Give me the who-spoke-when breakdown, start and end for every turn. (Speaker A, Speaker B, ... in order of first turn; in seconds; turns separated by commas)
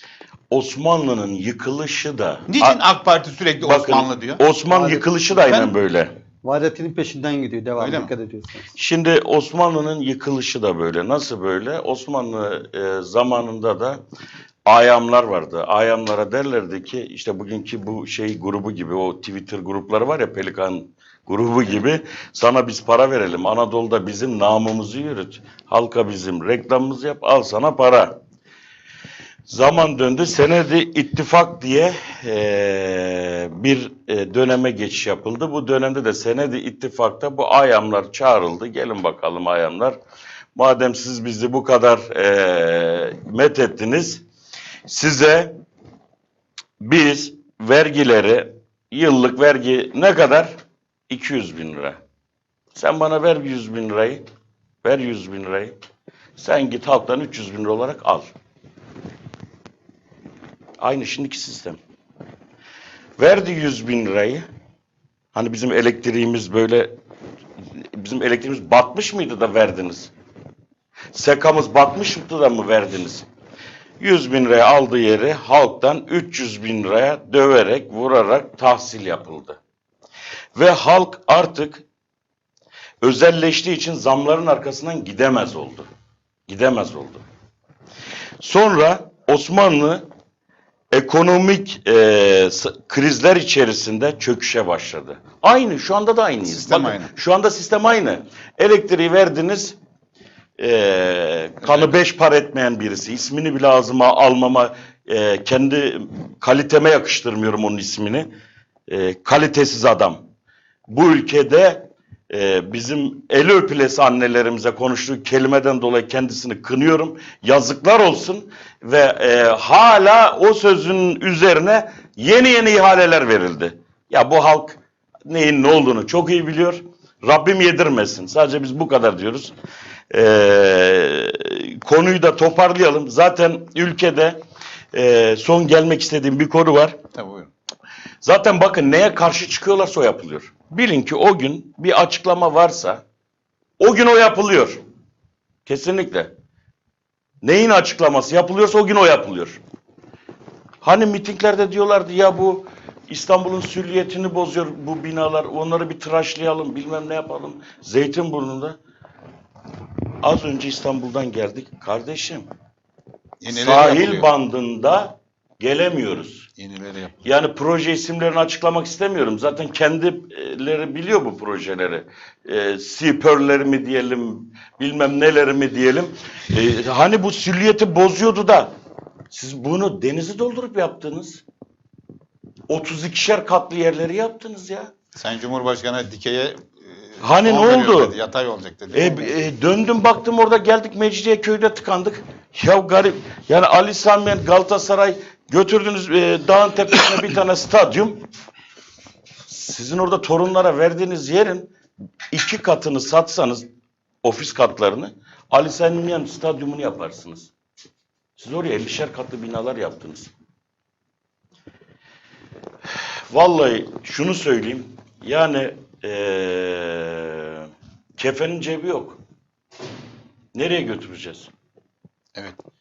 Speaker A: 0.5-2.8, Speaker B: 2.5-4.5, Speaker A: 3.6-6.1, Speaker C: 4.7-5.7, Speaker C: 6.4-8.6, Speaker B: 7.8-8.1, Speaker A: 8.8-14.0, Speaker A: 14.7-28.1, Speaker A: 29.5-40.0, Speaker A: 40.6-44.2, Speaker A: 44.9-45.5, Speaker A: 46.8-50.5, Speaker A: 51.1-52.0, Speaker A: 52.8-54.2, Speaker A: 54.8-55.8, Speaker A: 56.4-58.3, Speaker A: 60.8-61.8, Speaker A: 63.2-64.5, Speaker A: 65.3-66.9, Speaker A: 67.9-70.1, Speaker A: 71.1-73.2, Speaker A: 74.0-79.6, Speaker A: 80.6-81.8, Speaker A: 83.0-85.9, Speaker A: 86.5-87.2, Speaker A: 88.4-90.0, Speaker A: 90.9-99.8, Speaker B: 96.4-97.1, Speaker A: 100.6-108.3, Speaker A: 108.9-110.2, Speaker A: 110.9-129.5, Speaker A: 130.1-134.4, Speaker A: 134.9-137.0, Speaker B: 137.1-137.5, Speaker A: 138.2-143.0, Speaker A: 143.8-144.8, Speaker A: 145.7-146.3, Speaker A: 147.4-149.6, Speaker A: 150.8-158.8, Speaker A: 160.2-162.5, Speaker B: 163.4-164.3, Speaker A: 163.5-166.5, Speaker B: 166.6-167.2, Speaker A: 167.2-178.7, Speaker A: 179.3-181.4, Speaker A: 182.7-184.9, Speaker B: 185.2-189.3, Speaker A: 187.2-188.2, Speaker A: 188.9-198.2, Speaker A: 199.5-201.7, Speaker A: 202.3-203.7, Speaker A: 204.2-207.5, Speaker A: 208.4-210.3, Speaker A: 213.3-219.2, Speaker A: 220.5-221.5